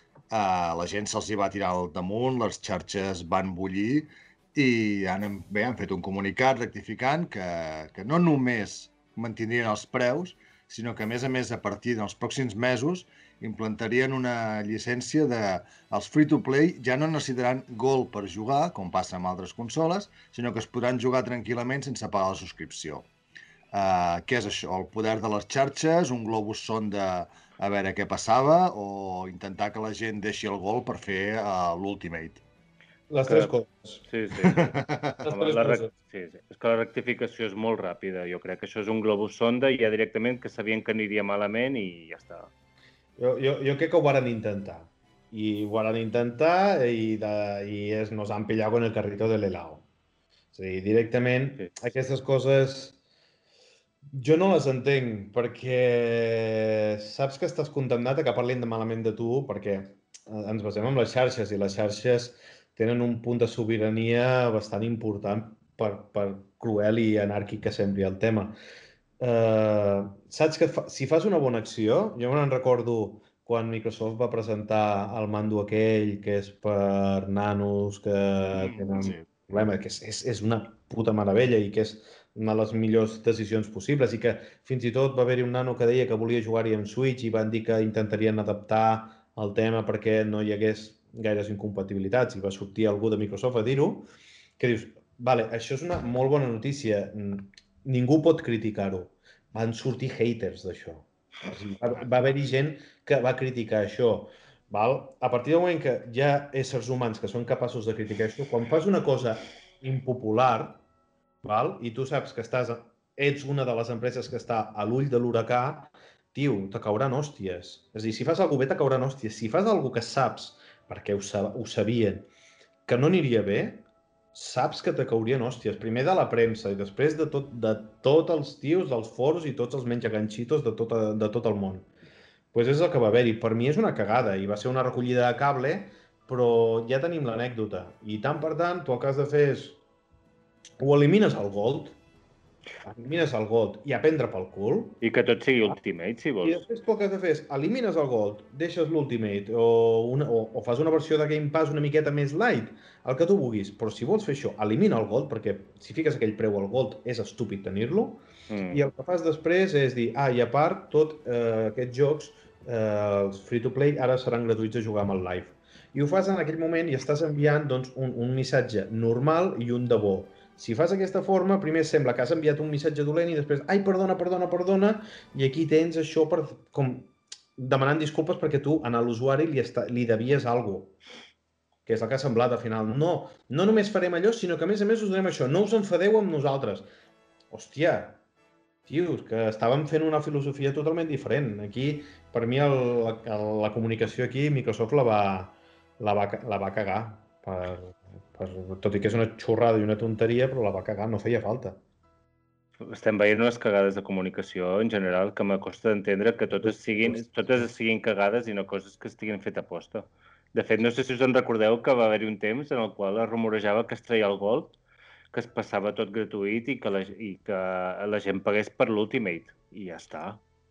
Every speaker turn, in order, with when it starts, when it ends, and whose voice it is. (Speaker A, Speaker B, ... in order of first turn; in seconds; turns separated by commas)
Speaker A: 0.3-23.1, Speaker A: 23.7-32.4, Speaker B: 33.1-34.0, Speaker C: 33.2-33.5, Speaker C: 34.1-42.5, Speaker A: 34.5-35.2, Speaker B: 35.2-35.9, Speaker B: 43.2-49.8, Speaker B: 50.5-53.0, Speaker B: 54.1-68.6, Speaker B: 69.2-94.0, Speaker A: 78.5-79.2, Speaker B: 94.6-110.8, Speaker B: 111.4-122.3, Speaker B: 122.9-131.9, Speaker B: 132.5-139.8, Speaker B: 140.8-142.0, Speaker B: 142.8-145.0, Speaker C: 145.0-146.6, Speaker B: 146.4-180.9, Speaker C: 158.5-158.8, Speaker B: 181.8-186.9, Speaker B: 187.5-188.2, Speaker B: 188.9-201.8, Speaker C: 202.8-214.8, Speaker C: 215.3-220.4